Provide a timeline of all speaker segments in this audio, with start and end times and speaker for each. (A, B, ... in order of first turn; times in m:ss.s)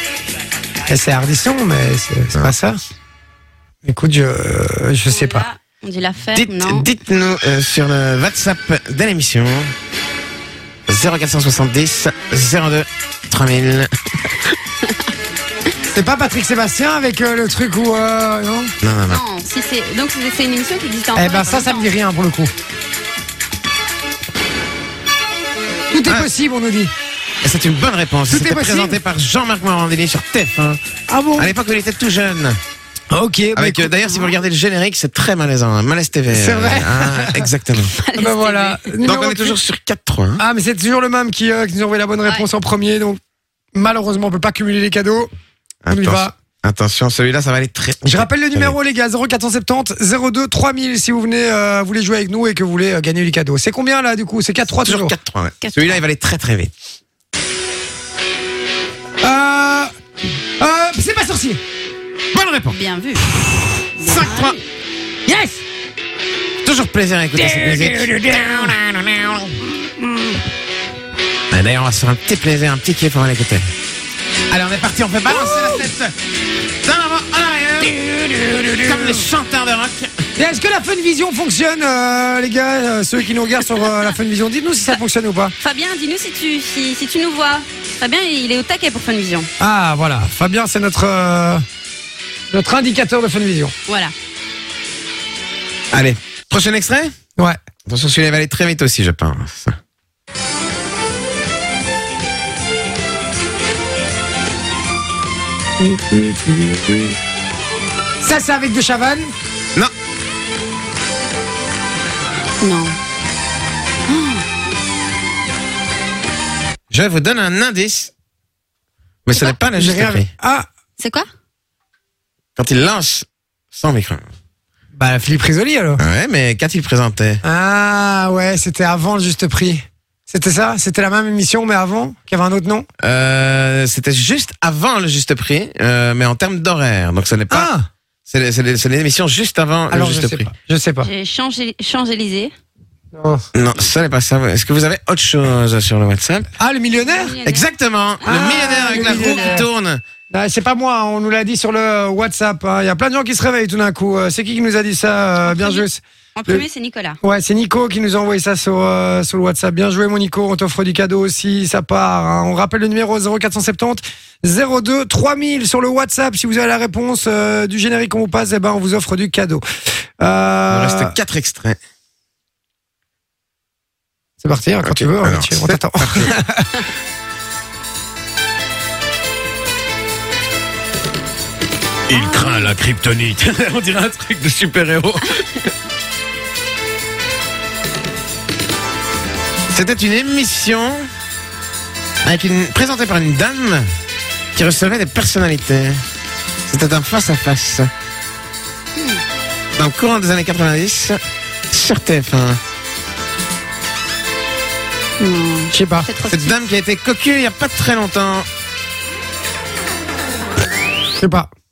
0:00.9-0:02.8 A
0:03.8-0:05.5 A
0:05.1-0:06.9 B
0:06.3-0:09.7 C
0:10.9-0:14.3 C
0:15.9-0:18.7 A
0:18.8-0:19.2 C
0:19.1-0:21.9 B
0:21.1-0:22.5 A
0:25.9-0:26.9 A
0:27.4-0:30.8 C
0:28.3-0:29.0 A
0:31.1-0:31.5 A
0:31.4-0:32.6 C
0:33.1-0:33.9 A
0:33.5-0:37.9 C
0:34.0-0:34.3 B
0:36.3-0:37.5 A
0:37.9-0:39.0 B
0:38.1-0:39.6 A
0:39.0-0:40.4 C
0:40.4-0:43.2 A
0:43.7-0:45.3 A
0:45.8-0:48.8 C
0:45.9-0:46.3 A
0:48.0-0:55.1 A
0:54.8-0:56.7 C
0:55.6-0:56.0 B
0:59.2-0:59.9 A
1:00.6-1:01.6 A
1:02.3-1:02.8 C
1:02.7-1:03.2 B
1:04.0-1:04.6 B
1:04.0-1:04.6 C
1:05.3-1:05.6 A
1:06.6-1:09.5 C
1:07.3-1:08.8 A
1:09.9-1:10.4 A
1:11.5-1:13.6 C
1:14.5-1:16.1 C
1:15.3-1:15.9 A
1:16.8-1:18.0 C
1:17.8-1:19.2 A
1:18.8-1:20.1 C
1:20.4-1:25.5 A
1:25.6-1:29.5 B
1:29.6-1:31.6 A
1:32.5-1:33.7 A
1:33.9-1:34.1 B
1:35.9-1:37.1 C
1:37.9-1:39.8 C
1:45.8-1:47.1 A
1:48.2-1:49.3 A
1:52.6-1:53.0 B
1:54.1-1:54.4 B
1:56.9-1:58.1 C
1:59.2-2:00.3 C
1:59.7-2:00.6 A
2:01.0-2:01.3 B
2:02.6-2:04.2 C
2:05.0-2:06.0 A
2:06.0-2:07.4 C
2:07.4-2:12.9 A
2:13.0-2:17.7 C
2:17.5-2:17.9 A
2:18.3-2:20.5 C
2:19.9-2:21.1 A
2:21.0-2:22.5 B
2:23.1-2:23.4 A
2:23.5-2:26.5 C
2:26.6-2:27.3 A
2:26.9-2:29.6 B
2:27.4-2:30.0 C
2:28.2-2:29.6 A
2:30.3-2:36.6 A
2:35.4-2:35.8 B
2:36.4-2:37.2 B
2:37.2-2:49.6 A
2:50.2-2:51.2 A
2:50.7-2:51.8 C
2:54.4-2:56.8 A
2:54.8-2:56.4 C
3:02.1-3:05.7 C
3:02.1-3:02.7 B
3:09.7-3:11.1 C
3:12.2-3:13.9 C
3:14.5-3:16.0 C
3:16.7-3:17.9 C
3:19.0-3:19.2 B
3:19.8-3:21.2 C
3:21.7-3:22.6 C
3:25.2-3:26.6 B
3:25.7-3:26.1 A
3:26.3-3:28.5 C
3:31.2-3:31.5 A